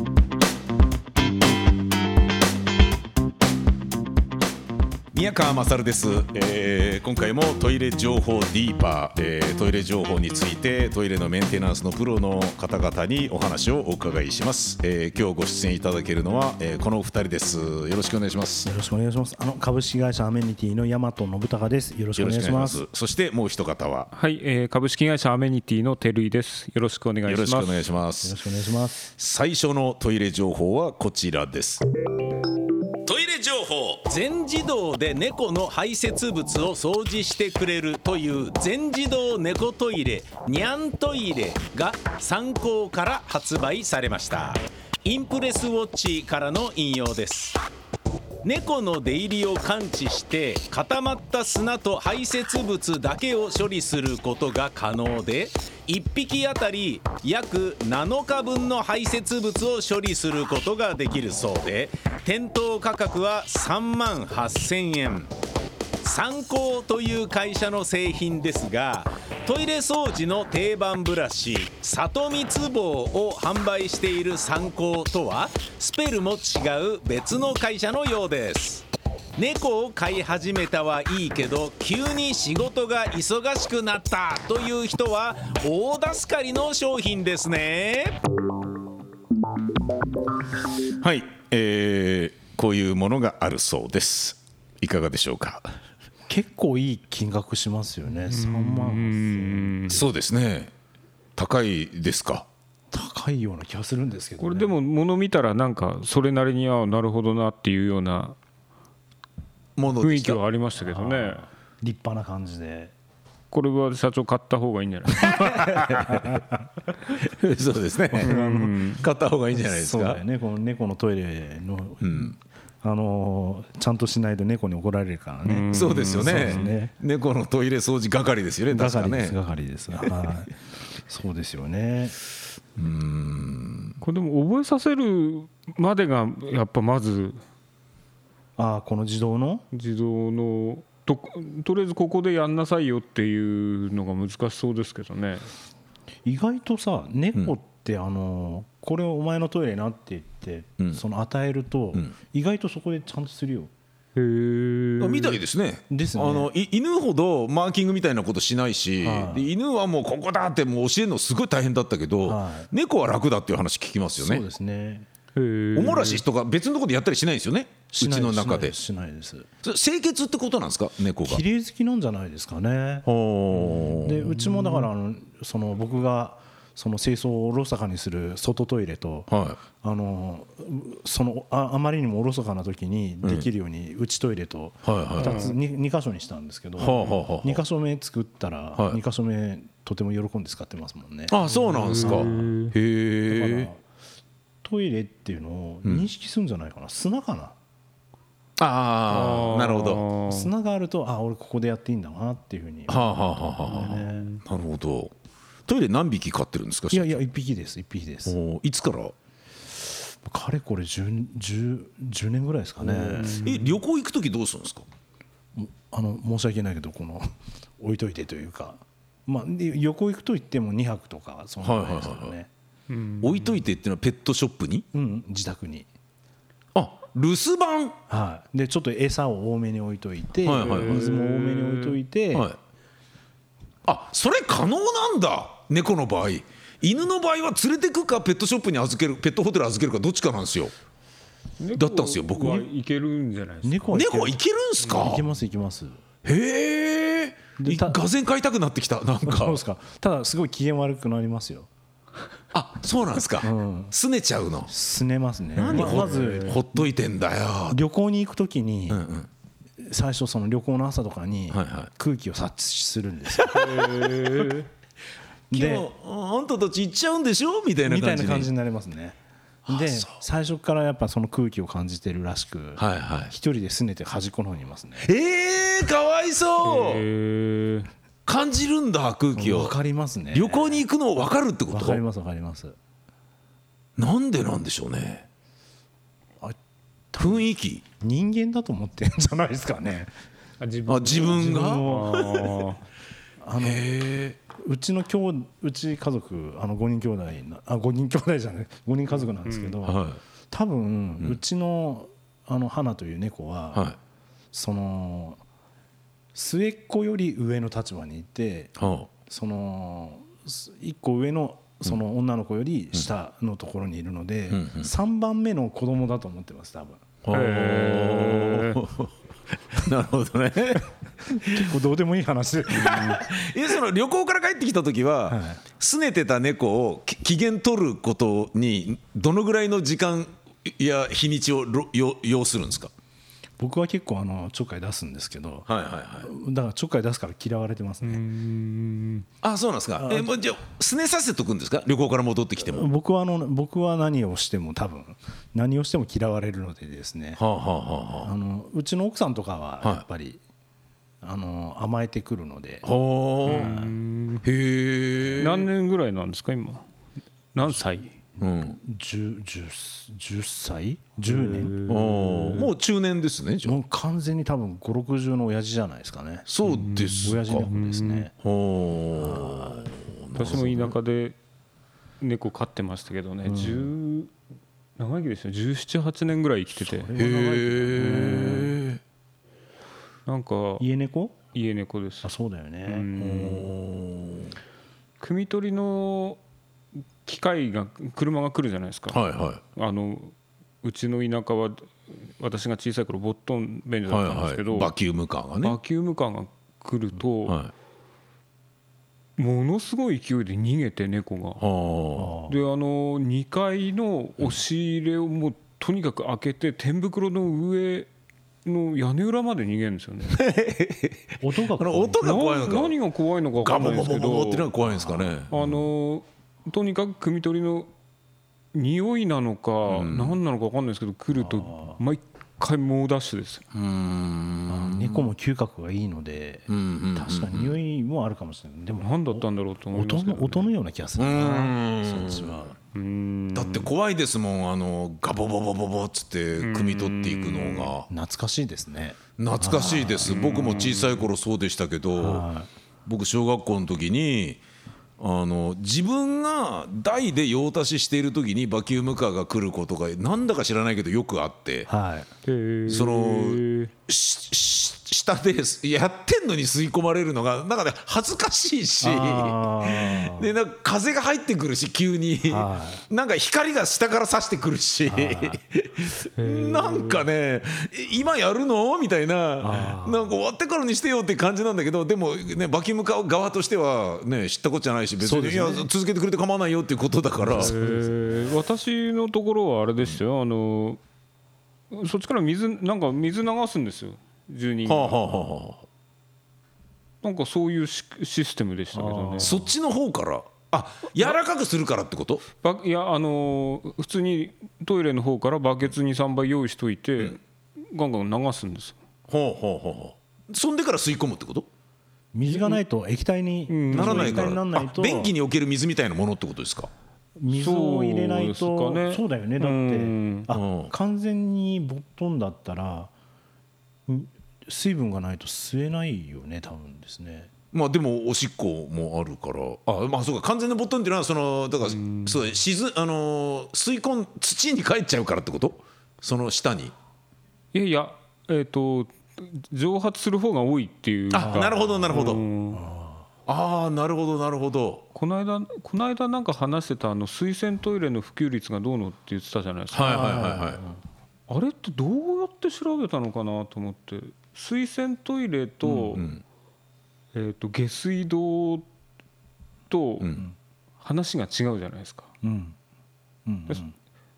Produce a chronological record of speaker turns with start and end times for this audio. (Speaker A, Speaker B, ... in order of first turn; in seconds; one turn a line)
Speaker A: 5.1-18.7
Speaker B: 18.6-22.8
Speaker A: 22.2-24.1
Speaker C: 24.1-27.9
Speaker A: 27.3-28.4
Speaker B: 28.2-29.1
Speaker A: 29.1-31.8
Speaker D: 33.1-47.6
Speaker D: 48.4-65.3
Speaker D: 66.0-78.9
Speaker D: 79.4-88.2
Speaker A: 91.0-95.7
Speaker B: 96.3-100.1
Speaker C: 98.3-100.0
Speaker A: 99.9-100.7
Speaker A: 101.4-102.5
Speaker B: 102.9-104.7
Speaker C: 104.4-108.4
Speaker A: 109.8-110.4
Speaker C: 110.0-111.5
Speaker B: 110.8-112.9
Speaker C: 113.5-115.5
Speaker B: 115.1-116.7
Speaker A: 115.4-116.4
Speaker A: 117.1-120.2
Speaker B: 118.2-118.5
Speaker C: 118.2-119.0
Speaker B: 119.5-126.9
Speaker A: 122.0-122.3
Speaker C: 125.5-126.8
Speaker A: 125.7-129.4
Speaker B: 128.7-132.2
Speaker A: 132.8-134.0
Speaker C: 134.0-137.4
Speaker B: 138.6-139.7
Speaker C: 139.7-145.5
Speaker B: 146.2-153.7
Speaker C: 154.2-155.4
Speaker A: 155.0-164.5
Speaker B: 155.9-156.5
Speaker B: 159.0-159.5
Speaker B: 162.2-162.7
Speaker B: 164.2-165.1
Speaker C: 165.3-166.2
Speaker A: 165.8-168.8
Speaker B: 167.9-169.5
Speaker A: 169.6-171.4
Speaker B: 171.2-173.1
Speaker A: 173.1-174.5
Speaker B: 173.8-192.5
Speaker A: 179.3-179.6
Speaker A: 183.2-183.5
Speaker A: 184.8-185.5
Speaker C: 185.2-185.6
Speaker A: 186.8-187.6
Speaker A: 191.3-193.7
Speaker C: 191.5-192.8
Speaker B: 193.3-193.8
Speaker B: 194.6-197.6
Speaker A: 195.8-196.1
Speaker A: 198.6-200.1
Speaker C: 199.1-200.5
Speaker B: 200.2-204.3
Speaker A: 202.9-205.1
Speaker C: 204.0-204.4
Speaker A: 205.7-207.2
Speaker B: 206.9-208.4
Speaker A: 208.2-209.1
Speaker B: 210.1-213.4
Speaker A: 212.9-214.9
Speaker C: 213.0-213.8
Speaker B: 215.6-222.5
Speaker A: 221.6-222.3
Speaker C: 222.9-223.6
Speaker A: 223.2-224.9
Speaker B: 224.9-225.9
Speaker A: 226.7-228.0
Speaker B: 228.1-232.5
Speaker A: 230.4-231.2
Speaker C: 230.5-232.0
Speaker A: 233.9-240.7
Speaker C: 241.6-244.0
Speaker A: 241.8-242.7
Speaker B: 243.6-246.0
Speaker A: 243.9-245.3
Speaker A: 246.2-249.6
Speaker B: 247.6-248.0
Speaker B: 249.2-251.7
Speaker A: 252.5-254.7
Speaker B: 253.4-253.9
Speaker B: 254.7-256.6
Speaker A: 255.6-257.8
Speaker C: 255.6-256.6
Speaker B: 257.7-259.0
Speaker A: 258.9-259.3
Speaker B: 259.8-264.2
Speaker A: 261.5-261.9
Speaker A: 263.3-263.9
Speaker C: 263.5-264.7
Speaker B: 265.5-265.9
Speaker A: 265.5-268.5
Speaker B: 267.9-275.1
Speaker A: 269.7-270.2
Speaker A: 272.8-273.3
Speaker A: 275.0-277.0
Speaker C: 276.6-277.9
Speaker A: 278.3-279.8
Speaker B: 279.3-280.8
Speaker A: 280.3-282.0
Speaker B: 281.7-282.8
Speaker A: 284.0-285.3
Speaker B: 287.1-287.4
Speaker A: 287.2-287.9
Speaker B: 288.0-290.1
Speaker C: 290.6-292.9
Speaker A: 290.9-292.6
Speaker B: 291.3-292.3
Speaker B: 293.4-293.9
Speaker A: 293.6-294.4
Speaker B: 294.5-303.9
Speaker C: 299.4-299.8
Speaker A: 299.8-300.2
Speaker B: 304.5-305.4
Speaker B: 306.3-317.0
Speaker A: 308.8-309.1
Speaker A: 314.5-314.9
Speaker A: 317.2-319.1
Speaker C: 317.3-318.8
Speaker A: 319.7-321.7
Speaker B: 321.5-323.3
Speaker A: 322.7-332.9
Speaker B: 325.3-325.6
Speaker B: 333.6-335.7
Speaker A: 335.7-336.3
Speaker B: 336.2-338.2
Speaker C: 338.0-339.3
Speaker A: 339.4-342.9
Speaker B: 340.0-340.4
Speaker B: 342.7-347.4
Speaker A: 347.4-348.3
Speaker B: 348.2-350.4
Speaker B: 351.2-352.9
Speaker A: 352.8-353.8
Speaker C: 353.4-354.5
Speaker B: 353.5-353.9
Speaker A: 354.4-355.7
Speaker C: 355.4-356.9
Speaker C: 357.5-358.1
Speaker B: 358.4-361.8
Speaker A: 358.4-358.8
Speaker C: 361.3-362.7
Speaker A: 361.9-363.8
Speaker B: 363.6-366.5
Speaker A: 366.5-367.7
Speaker C: 366.6-368.3
Speaker B: 367.2-368.3
Speaker A: 368.4-371.0
Speaker B: 369.1-369.9
Speaker C: 370.4-371.4
Speaker C: 372.2-374.3
Speaker B: 373.4-373.9
Speaker C: 375.0-377.1
Speaker B: 376.8-378.8
Speaker A: 377.1-379.0
Speaker C: 378.0-378.6
Speaker C: 380.3-380.9
Speaker B: 380.8-381.4
Speaker C: 381.5-382.3
Speaker B: 382.2-383.1
Speaker C: 382.9-383.7
Speaker A: 383.2-384.6
Speaker C: 385.2-386.4
Speaker C: 387.2-389.2
Speaker A: 389.1-389.6
Speaker C: 389.8-394.9
Speaker A: 394.1-395.8
Speaker C: 395.6-397.6
Speaker A: 397.5-397.7
Speaker C: 399.4-401.6
Speaker A: 401.6-402.4
Speaker B: 402.2-402.6
Speaker C: 402.5-408.1
Speaker C: 408.6-410.4
Speaker A: 410.3-413.0
Speaker B: 411.4-412.2
Speaker C: 412.2-414.7
Speaker A: 413.6-415.8
Speaker B: 414.8-415.4
Speaker C: 415.5-417.9
Speaker C: 418.7-423.6
Speaker A: 419.9-420.4
Speaker B: 421.4-422.0
Speaker A: 423.7-425.3
Speaker B: 424.7-432.8
Speaker A: 426.7-427.8
Speaker C: 429.0-430.7
Speaker A: 431.2-432.7
Speaker C: 432.9-433.9
Speaker A: 433.5-438.1
Speaker C: 436.6-437.9
Speaker B: 438.1-440.4
Speaker A: 439.4-442.5
Speaker C: 440.2-441.3
Speaker B: 442.2-442.7
Speaker A: 443.1-444.6
Speaker A: 445.2-451.9
Speaker B: 451.9-452.3
Speaker C: 452.4-453.9
Speaker A: 452.9-477.8
Speaker B: 459.0-460.5
Speaker B: 462.5-463.0
Speaker B: 465.1-465.6
Speaker C: 466.4-467.2
Speaker B: 469.6-470.4
Speaker B: 475.2-475.9
Speaker B: 477.4-478.5
Speaker C: 477.5-481.0
Speaker C: 481.9-485.5
Speaker A: 484.9-485.9
Speaker C: 487.2-489.6
Speaker B: 488.9-489.7
Speaker A: 489.4-492.4
Speaker C: 492.6-499.0
Speaker A: 499.3-501.7
Speaker B: 502.3-505.3
Speaker C: 502.5-502.8
Speaker C: 503.7-504.6
Speaker A: 503.9-506.9
Speaker B: 507.4-513.1
Speaker C: 507.5-510.5
Speaker A: 510.5-510.9
Speaker B: 514.1-517.5
Speaker A: 517.7-526.9
Speaker C: 521.8-522.5
Speaker C: 527.7-532.8
Speaker A: 531.3-532.4
Speaker B: 531.4-533.3
Speaker A: 533.5-535.0
Speaker C: 535.1-540.5
Speaker A: 539.9-540.8
Speaker B: 540.0-541.0
Speaker C: 541.5-546.3
Speaker A: 545.8-546.4
Speaker C: 547.3-548.9
Speaker C: 549.9-550.4
Speaker C: 551.0-552.3
Speaker B: 552.4-552.8
Speaker B: 553.5-553.9